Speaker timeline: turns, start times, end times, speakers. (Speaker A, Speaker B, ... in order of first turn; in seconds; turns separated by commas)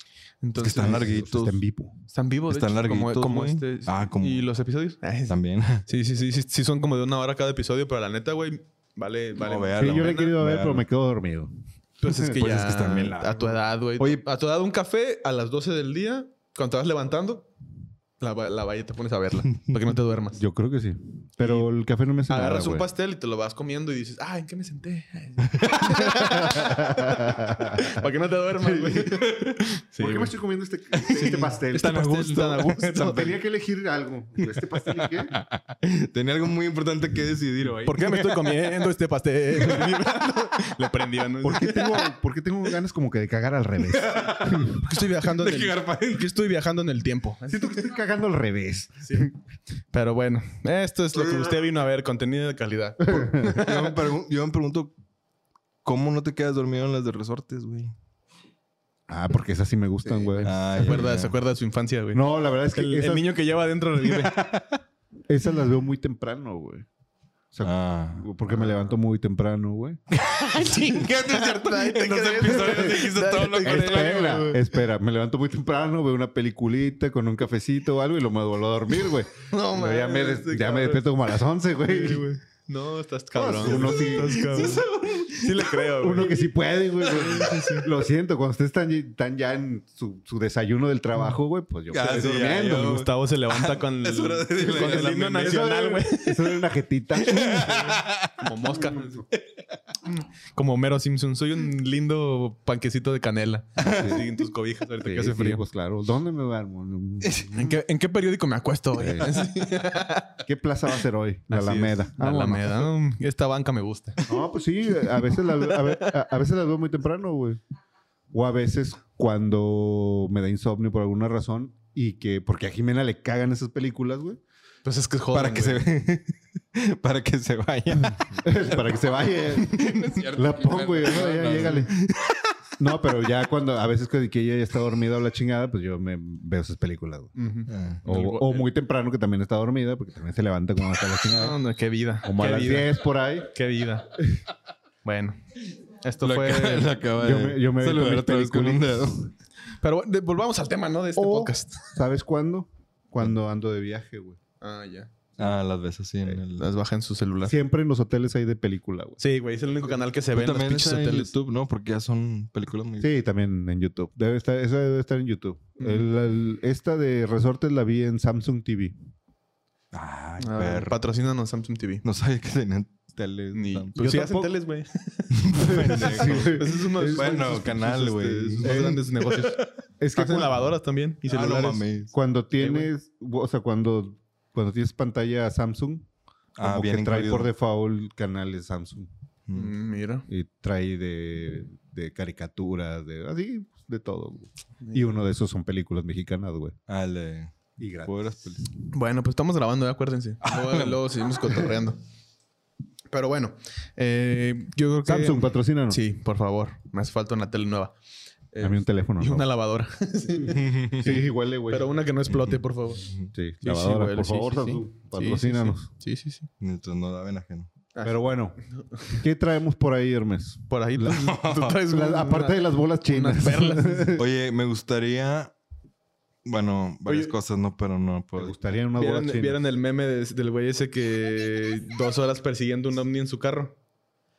Speaker A: 0.4-1.2, Speaker B: 0.6-1.6, Speaker C: 0.8-1.9, Speaker A: 2.1-10.3, Speaker B: 2.5-4.5, Speaker B: 5.3-5.8, Speaker B: 9.4-10.8, Speaker C: 9.8-11.5, Speaker A: 12.0-17.5, Speaker B: 12.3-14.2, Speaker A: 18.2-20.4, Speaker C: 20.4-22.9, Speaker A: 21.4-21.7, Speaker A: 22.3-30.3, Speaker B: 25.6-26.0, Speaker C: 26.2-28.0, Speaker C: 28.6-29.1, Speaker B: 29.1-29.6, Speaker C: 30.0-32.0, Speaker B: 31.0-33.3, Speaker A: 31.0-33.3, Speaker C: 33.0-35.3, Speaker B: 35.0-38.7, Speaker A: 37.8-42.0, Speaker B: 39.6-40.3, Speaker C: 41.4-44.8, Speaker B: 43.9-46.3, Speaker A: 44.5-47.9, Speaker C: 47.5-49.4, Speaker A: 49.0-49.3, Speaker A: 49.9-53.9, Speaker C: 53.0-53.7, Speaker B: 53.4-54.9, Speaker B: 55.8-57.9, Speaker C: 59.1-61.0, Speaker A: 60.0-62.2, Speaker B: 60.4-61.4, Speaker C: 62.1-63.3, Speaker A: 62.7-64.4, Speaker B: 64.1-64.7, Speaker C: 65.3-66.9, Speaker C: 67.5-70.0, Speaker B: 67.6-68.3, Speaker A: 68.6-68.8, Speaker A: 70.1-74.6, Speaker B: 70.4-74.6, Speaker C: 73.6-82.2, Speaker A: 79.5-81.0, Speaker A: 81.8-86.4, Speaker C: 83.3-84.8, Speaker B: 83.7-85.6, Speaker C: 86.0-93.0, Speaker A: 87.0-87.8, Speaker B: 87.2-87.8, Speaker B: 91.9-95.7, Speaker A: 92.7-96.6, Speaker C: 94.8-98.0, Speaker B: 97.2-98.5, Speaker A: 98.4-99.2, Speaker C: 98.7-99.2, Speaker A: 100.1-105.6, Speaker C: 103.8-104.3, Speaker C: 105.0-107.8, Speaker A: 107.5-110.4, Speaker C: 109.0-109.4, Speaker C: 110.4-112.9, Speaker A: 111.5-114.3, Speaker C: 114.3-117.6, Speaker A: 115.3-116.1, Speaker C: 118.3-124.4, Speaker A: 124.8-125.8, Speaker B: 125.3-128.4, Speaker C: 128.4-131.9, Speaker A: 129.7-130.2, Speaker B: 129.7-132.5, Speaker C: 132.8-137.3, Speaker A: 137.3-138.7, Speaker B: 137.7-138.0, Speaker C: 138.0-141.6, Speaker A: 141.3-144.1, Speaker C: 142.2-143.5, Speaker A: 145.0-146.9, Speaker B: 146.2-149.3, Speaker C: 147.2-149.3, Speaker A: 149.8-151.9, Speaker C: 151.2-154.4, Speaker A: 154.6-155.1, Speaker B: 155.4-156.7, Speaker A: 156.5-157.5, Speaker C: 157.4-159.2, Speaker A: 159.2-161.3, Speaker B: 160.3-163.1, Speaker C: 163.0-168.9, Speaker A: 165.8-166.1, Speaker B: 169.9-171.0, Speaker A: 170.4-172.0, Speaker B: 172.0-173.9, Speaker A: 173.5-181.8, Speaker C: 174.0-174.5, Speaker B: 175.4-178.9, Speaker C: 175.6-177.7, Speaker C: 178.6-180.6, Speaker B: 181.2-182.1, Speaker C: 182.1-186.1, Speaker A: 182.6-182.9, Speaker B: 186.6-187.5, Speaker C: 186.6-189.1, Speaker B: 189.5-189.7, Speaker A: 189.5-190.2, Speaker C: 190.3-196.8, Speaker A: 194.8-195.1, Speaker B: 196.9-198.7, Speaker C: 197.8-198.6, Speaker A: 198.9-202.0, Speaker B: 200.4-201.0, Speaker A: 203.1-207.9, Speaker C: 205.1-206.0, Speaker A: 208.5-213.1, Speaker C: 208.6-209.4, Speaker B: 210.5-211.2, Speaker C: 210.9-211.9, Speaker B: 212.3-213.3, Speaker C: 213.3-215.9, Speaker A: 213.6-216.5, Speaker B: 216.6-217.7, Speaker A: 217.9-218.2, Speaker C: 218.0-221.1, Speaker A: 218.7-219.1, Speaker A: 220.7-224.1, Speaker B: 221.1-221.8, Speaker C: 221.9-224.2, Speaker B: 224.2-225.5, Speaker B: 226.4-228.6, Speaker A: 227.1-227.3, Speaker C: 228.4-229.6, Speaker A: 228.9-233.8